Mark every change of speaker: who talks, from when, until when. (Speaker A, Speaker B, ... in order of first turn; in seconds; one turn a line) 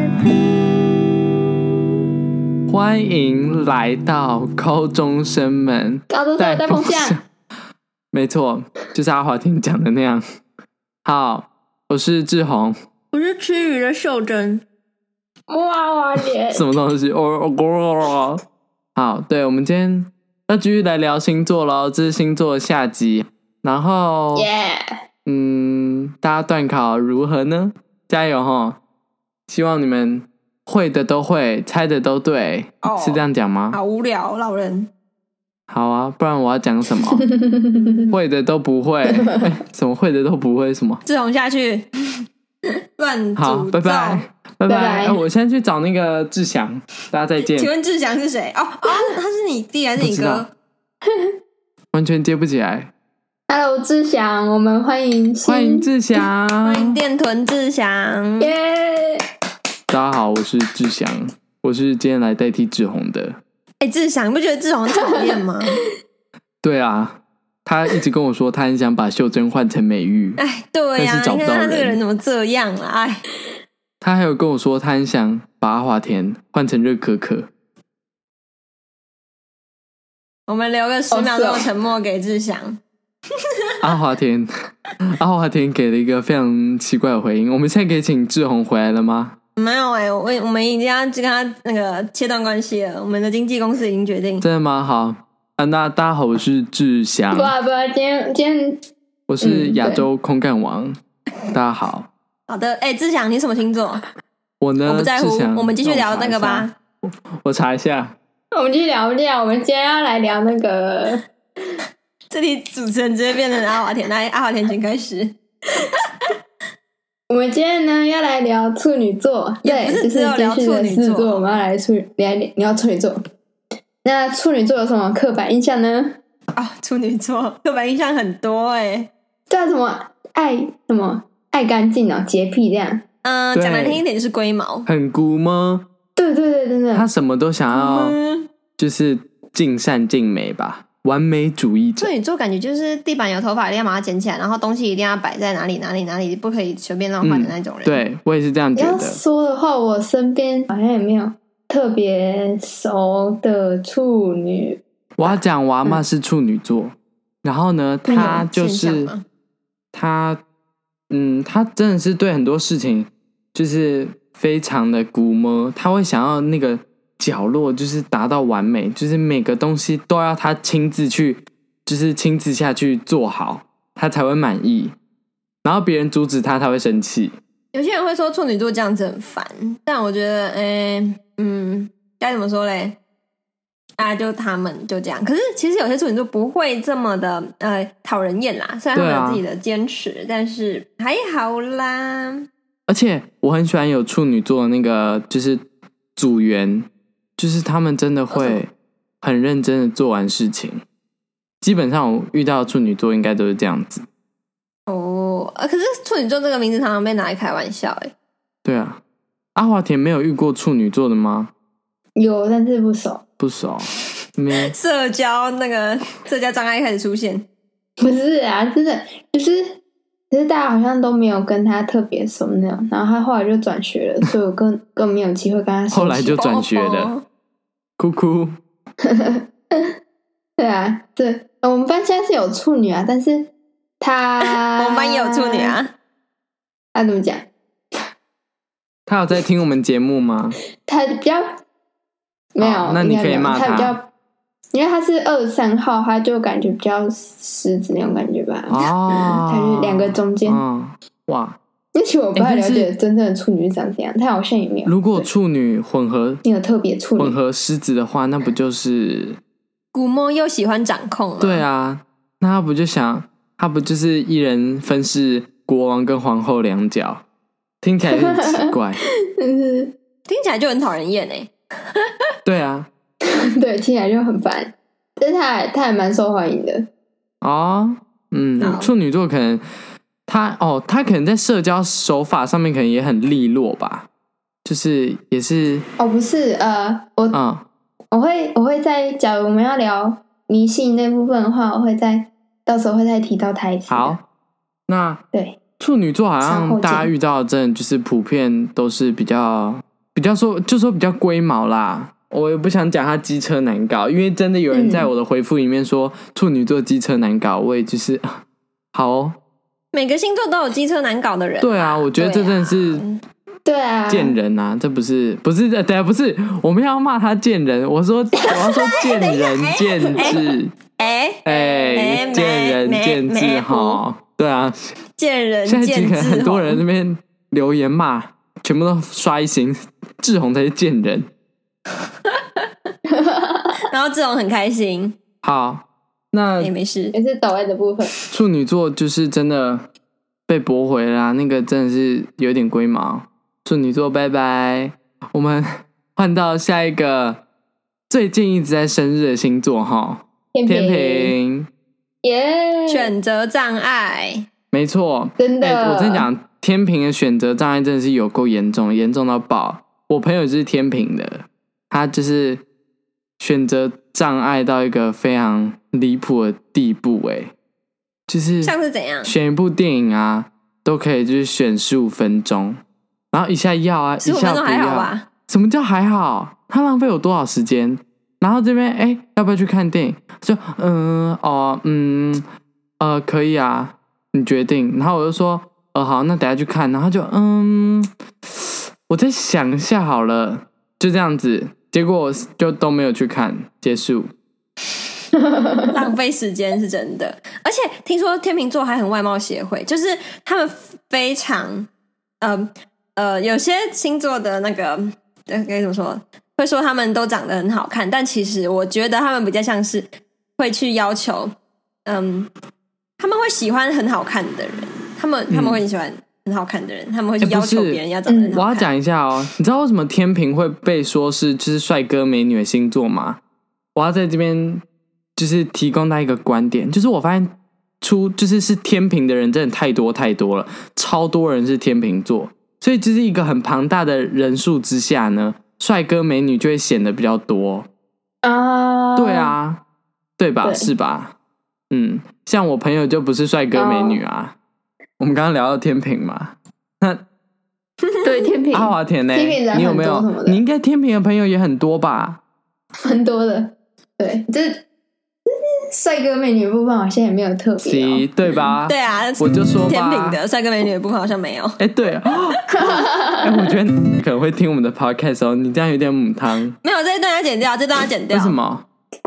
Speaker A: 2.7-7.2
Speaker B: 6.1-7.2
Speaker A: 8.1-10.2
Speaker A: 11.1-12.8
Speaker C: 13.1-14.6
Speaker B: 15.5-16.7
Speaker A: 16.5-18.4
Speaker A: 18.9-24.5
Speaker B: 24.4-25.0
Speaker A: 25.2-28.8
Speaker A: 29.5-33.8
Speaker C: 32.8-34.9
Speaker A: 35.7-37.2
Speaker B: 37.1-38.1
Speaker A: 38.1-41.0
Speaker C: 41.0-42.2
Speaker C: 43.0-44.2
Speaker A: 43.4-47.7
Speaker B: 44.7-45.2
Speaker C: 47.5-50.5
Speaker A: 50.0-50.5
Speaker A: 51.9-52.9
Speaker B: 53.5-55.9
Speaker A: 55.5-57.0
Speaker C: 56.6-58.5
Speaker B: 58.4-59.2
Speaker A: 59.9-63.4
Speaker C: 63.8-65.8
Speaker A: 66.6-70.4
Speaker C: 70.4-73.2
Speaker A: 71.0-72.0
Speaker A: 74.0-77.5
Speaker C: 80.5-82.8
Speaker B: 81.1-81.7
Speaker A: 83.8-84.5
Speaker A: 85.0-89.4
Speaker C: 89.6-94.5
Speaker A: 94.4-97.5
Speaker B: 97.3-98.8
Speaker A: 99.3-101.0
Speaker B: 99.4-100.1
Speaker A: 101.5-102.1
Speaker C: 102.5-104.0
Speaker A: 104.6-108.2
Speaker C: 104.9-106.7
Speaker B: 108.5-111.2
Speaker C: 112.3-115.4
Speaker B: 117.3-123.2
Speaker C: 119.6-121.5
Speaker B: 124.0-126.2
Speaker C: 126.5-129.1
Speaker B: 129.5-133.0
Speaker C: 133.2-134.9
Speaker A: 133.6-134.0
Speaker A: 134.9-135.9
Speaker B: 136.2-137.1
Speaker A: 136.9-138.2
Speaker C: 137.7-138.5
Speaker A: 138.8-142.1
Speaker C: 142.0-148.0
Speaker A: 147.2-149.2
Speaker B: 148.8-155.3
Speaker A: 155.2-159.1
Speaker C: 158.1-159.2
Speaker A: 159.9-160.4
Speaker A: 161.1-174.9
Speaker A: 175.6-177.3
Speaker C: 177.7-183.0
Speaker C: 184.0-192.5
Speaker A: 188.9-189.4
Speaker A: 192.9-195.6
Speaker A: 196.2-198.7
Speaker C: 198.3-198.6
Speaker A: 199.2-200.8
Speaker A: 201.6-204.1
Speaker C: 204.9-208.1
Speaker A: 208.7-209.0
Speaker A: 209.6-211.5
Speaker B: 212.2-213.2
Speaker A: 213.4-214.7
Speaker C: 214.6-217.5
Speaker B: 218.0-219.8
Speaker B: 220.3-226.4
Speaker A: 225.9-227.1
Speaker C: 226.3-227.2
Speaker A: 228.0-228.6
Speaker B: 229.0-229.9
Speaker B: 230.6-235.8
Speaker C: 234.4-235.9
Speaker B: 236.9-237.5
Speaker A: 239.1-240.6
Speaker B: 240.8-241.6
Speaker B: 242.6-244.1
Speaker A: 242.6-244.0
Speaker B: 244.7-250.6
Speaker A: 248.7-251.6
Speaker B: 251.9-255.3
Speaker A: 252.3-252.9
Speaker A: 254.8-256.4
Speaker B: 256.4-257.4
Speaker A: 257.2-259.4
Speaker C: 259.9-261.6
Speaker A: 261.4-267.2
Speaker A: 267.8-269.0
Speaker B: 268.1-269.9
Speaker C: 270.3-272.1
Speaker A: 272.4-272.9
Speaker B: 273.6-276.9
Speaker A: 277.4-279.6
Speaker C: 278.6-278.9
Speaker A: 280.3-284.1
Speaker A: 284.6-285.9
Speaker B: 286.0-287.4
Speaker A: 287.3-287.6
Speaker B: 288.1-294.2
Speaker A: 293.9-294.2
Speaker A: 294.9-295.2
Speaker B: 295.3-295.6
Speaker A: 295.8-308.4
Speaker B: 296.4-297.1
Speaker B: 304.7-305.1
Speaker A: 308.9-309.4
Speaker C: 309.9-313.2
Speaker A: 311.6-313.0
Speaker B: 313.6-314.4
Speaker A: 314.1-320.7
Speaker C: 318.5-320.4
Speaker C: 321.0-324.0
Speaker A: 321.4-324.9
Speaker C: 325.2-326.8
Speaker A: 325.7-331.3
Speaker C: 332.2-332.7
Speaker B: 333.1-333.8
Speaker C: 333.9-335.2
Speaker A: 335.4-336.7
Speaker C: 336.6-337.1
Speaker B: 337.1-338.1
Speaker A: 338.3-339.8
Speaker A: 340.5-347.4
Speaker A: 348.1-351.7
Speaker B: 350.5-351.3
Speaker B: 352.2-353.1
Speaker C: 352.9-354.5
Speaker A: 354.7-362.6
Speaker B: 355.4-356.3
Speaker A: 363.4-367.5
Speaker A: 368.3-372.8
Speaker C: 368.6-369.3
Speaker A: 373.3-382.4
Speaker C: 374.2-375.3
Speaker A: 383.0-394.3
Speaker C: 395.9-401.9
Speaker C: 402.4-411.5
Speaker C: 412.1-412.5
Speaker C: 413.2-418.9
Speaker A: 415.5-415.8
Speaker A: 417.4-418.0
Speaker B: 418.3-418.6
Speaker A: 418.5-423.4
Speaker A: 423.9-424.8
Speaker A: 425.4-437.9
Speaker B: 438.4-439.5
Speaker A: 439.2-439.8
Speaker A: 440.4-441.3
Speaker B: 440.6-440.9
Speaker A: 441.9-444.6
Speaker B: 443.8-444.2
Speaker A: 445.2-447.2
Speaker B: 448.2-450.6
Speaker A: 448.7-452.4
Speaker B: 453.1-454.8
Speaker B: 455.5-458.3
Speaker A: 457.8-460.4
Speaker C: 458.9-461.8
Speaker A: 461.8-466.8
Speaker B: 462.7-463.8
Speaker C: 466.8-468.6
Speaker A: 468.3-468.9